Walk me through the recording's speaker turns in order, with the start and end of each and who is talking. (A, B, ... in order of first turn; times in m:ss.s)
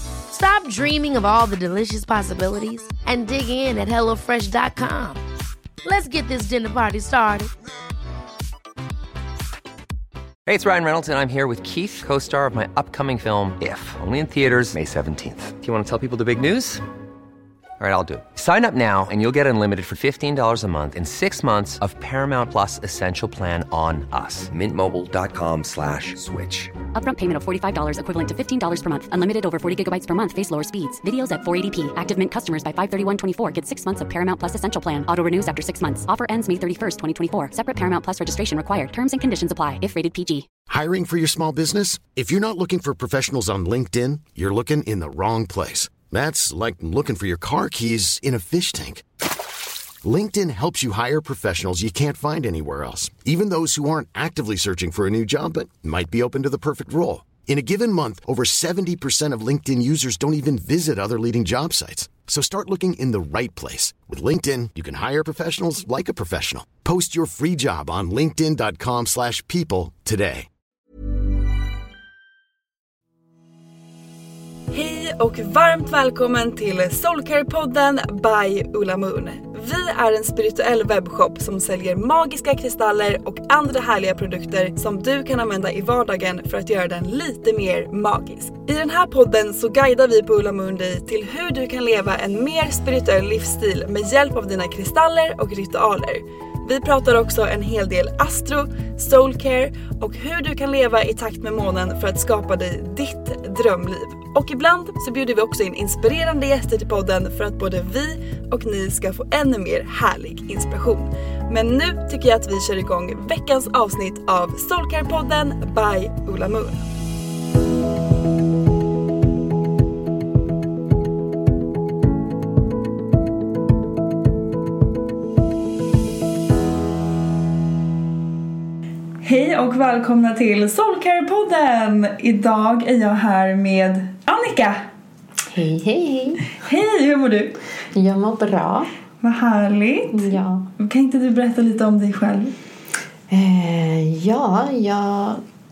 0:00.3-0:05.2 A
0:05.8-0:07.5 A
0:10.5-0:16.8 B
0:17.8-0:26.8 B
0:26.9-0:40.5 C
0:40.7-0:49.0 D
0:50.0-1:10.5 D
1:14.7-1:56.8 E
2:09.2-2:14.8 E
2:15.5-2:16.5 F
2:16.6-2:17.6 E
2:17.9-2:18.9 F
2:19.2-2:22.5 E
2:20.1-2:20.7 F
2:23.3-2:25.4 F